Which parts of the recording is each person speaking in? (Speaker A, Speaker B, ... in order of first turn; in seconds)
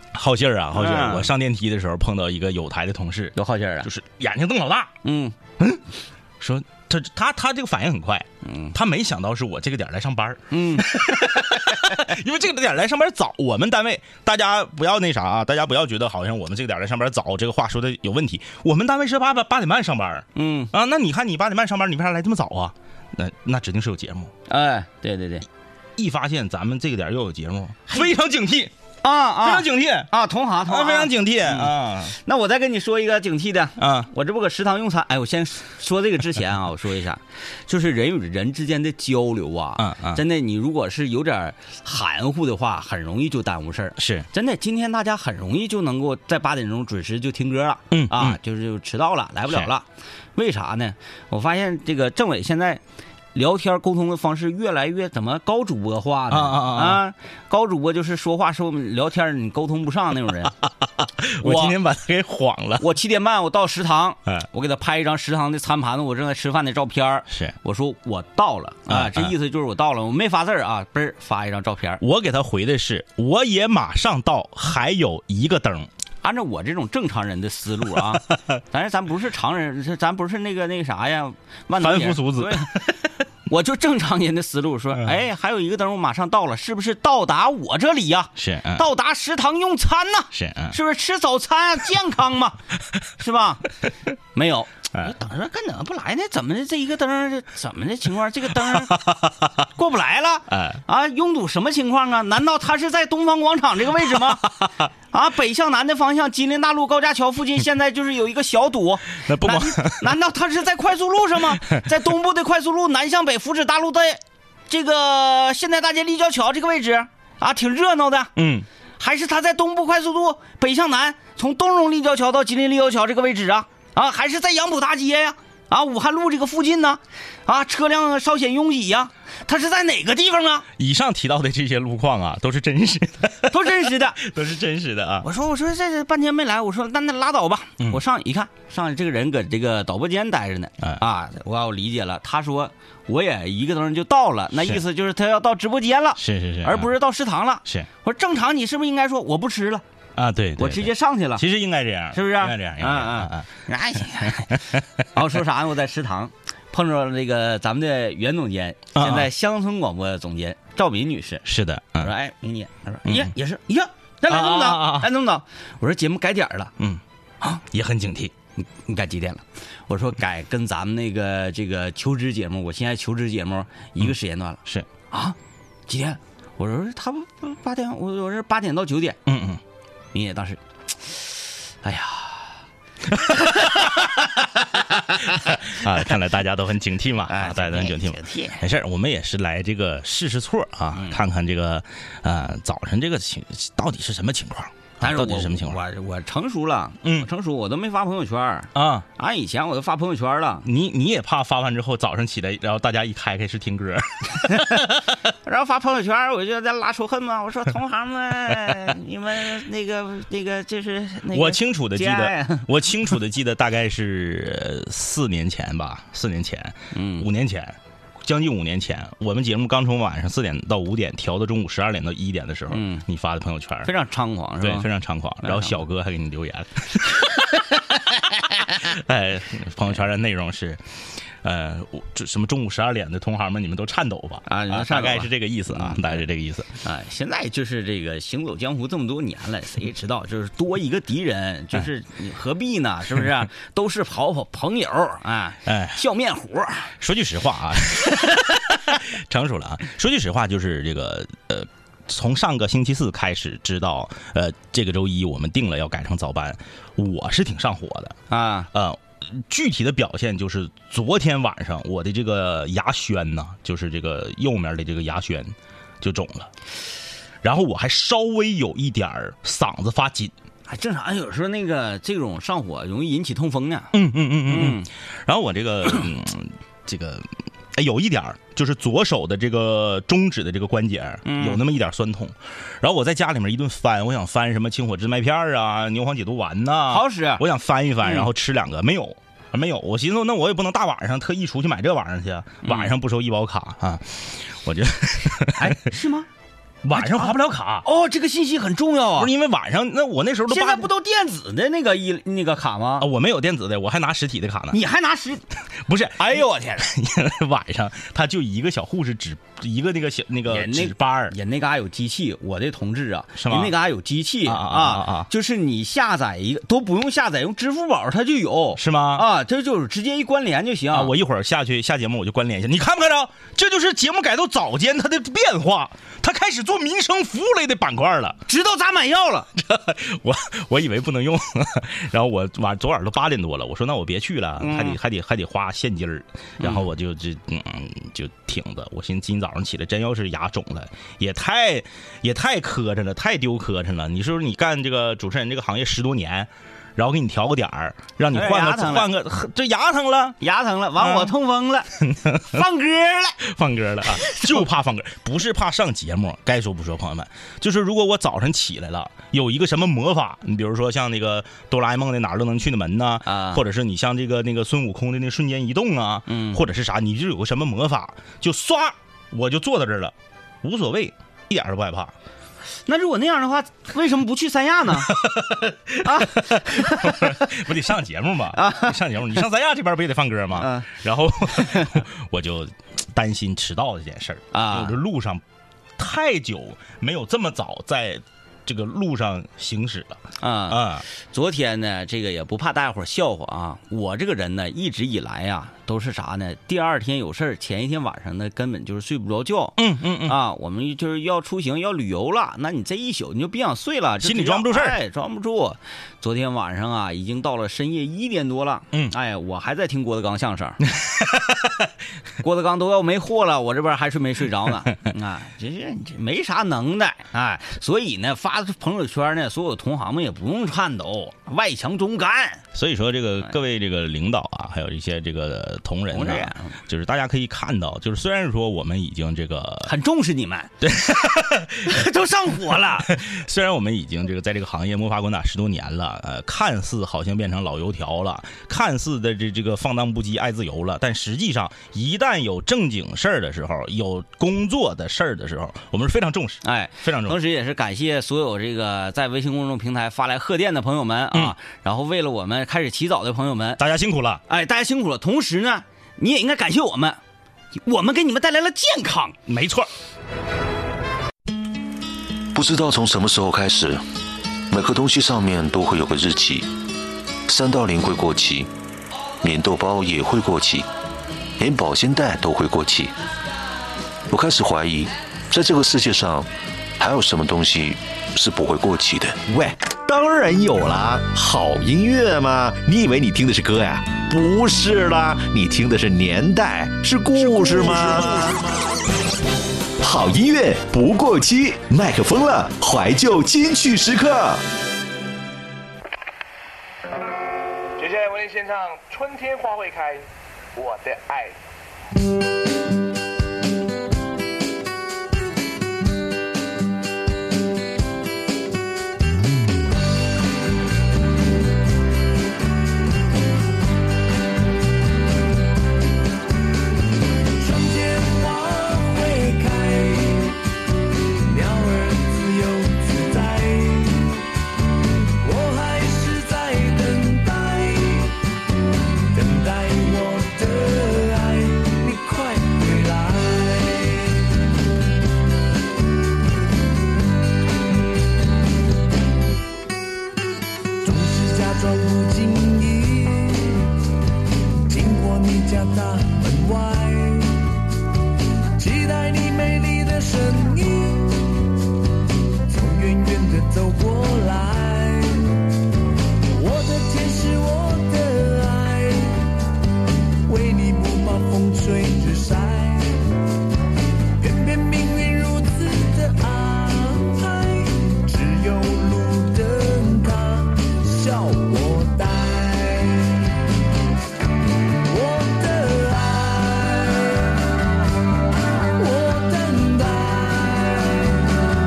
Speaker A: 0.1-4.9, 6.4-24.3, 26.0-28.7, 29.4-30.1, 30.6-32.1, 33.8-34.1, 39.8-40.2, 44.0-44.3, 47.9-48.4, 56.3-57.0, 61.0-62.8, 67.3-67.5, 68.9-69.3, 72.0-75.9, 78.0-78.4, 81.8-83.0, 88.4-88.8, 90.3-90.8, 98.6-99.5, 100.5-100.8, 104.0-104.7, 109.2-110.2, 111.5-111.8, 118.3-118.7, 130.8-135.3, 146.2-146.9, 150.2-153.5, 158.9-159.3, 161.4-162.1, 163.1-163.3, 164.3-165.1, 167.5-168.3, 179.2-179.6, 183.1-195.8, 197.0-197.3, 198.7-199.1, 200.6-205.1, 211.3-223.9, 224.6-230.8, 231.4-236.7, 245.7-246.0, 247.0-258.1, 258.7-266.5, 267.4-270.3, 273.9-295.9, 296.8-297.9, 299.1-300.9, 303.0-304.8, 305.8-311.3, 313.4-313.8, 314.4-315.3, 318.8-319.3, 320.9-328.4, 329.5-350.4, 351.0-351.3, 352.0-352.6, 353.4-372.1, 375.0-385.4, 386.0-391.0, 399.8-400.4, 404.2-405.0, 410.9-411.9, 422.7-429.9, 430.8-432.0, 433.0-447.4, 453.8-454.4, 459.5-459.9
Speaker B: 0.7-1.3, 3.4-3.9, 5.0-5.3, 8.4-8.7, 10.5-11.0, 20.3-20.7, 24.5-25.4, 29.0-52.8, 53.3-60.5, 61.4-61.8, 62.8-72.0, 76.2-82.9, 83.5-92.6, 93.2-93.7, 94.3-99.2, 99.7-104.6, 105.1-118.3, 119.0-130.7, 133.5-134.2, 135.2-149.8, 150.6-151.4, 152.1-161.4, 162.0-166.7, 168.6-175.3, 175.9-179.2, 180.1-182.6, 183.3-183.9, 187.3-188.6, 190.9-191.2, 195.0-200.6, 204.5-204.8, 205.4-212.7, 216.9-217.3, 222.7-223.0, 223.8-224.9, 225.4-225.8, 234.5-236.2, 236.8-246.9, 248.1-248.4, 258.3-258.7, 270.7-274.9, 281.2-281.6, 286.9-287.4, 288.0-288.3, 292.6-292.9, 295.5-296.3, 296.9-299.3, 300.5-303.1, 304.7-305.4, 306.2-306.8, 310.5-321.1, 328.5-329.5, 334.6-335.0, 348.3-349.1, 350.4-351.9, 352.5-353.4, 363.2-363.6, 366.3-366.6, 372.9-375.2, 376.0-377.4, 378.5-379.0, 380.6-380.9, 381.6-381.9, 384.5-384.9, 390.4-410.8, 412.4-422.6, 426.1-426.7, 429.8-430.7, 431.8-433.1, 446.6-453.8, 454.5-457.2, 457.7-459.4
Speaker C: 462.5-464.0, 464.7-466.7, 467.5-468.7, 469.4-470.9, 471.6-473.1, 474.3-479.4
Speaker D: 479.5-488.6, 490.0-494.6
Speaker E: 498.0-501.6
Speaker F: 517.6-520.5, 521.5-524.2, 525.4-528.3, 529.3-534.2, 541.0-543.8, 544.9-547.5, 548.8-551.3, 552.7-555.4, 556.6-559.3, 560.5-563.1, 564.4-573.3, 575.1-577.4, 579.0-581.3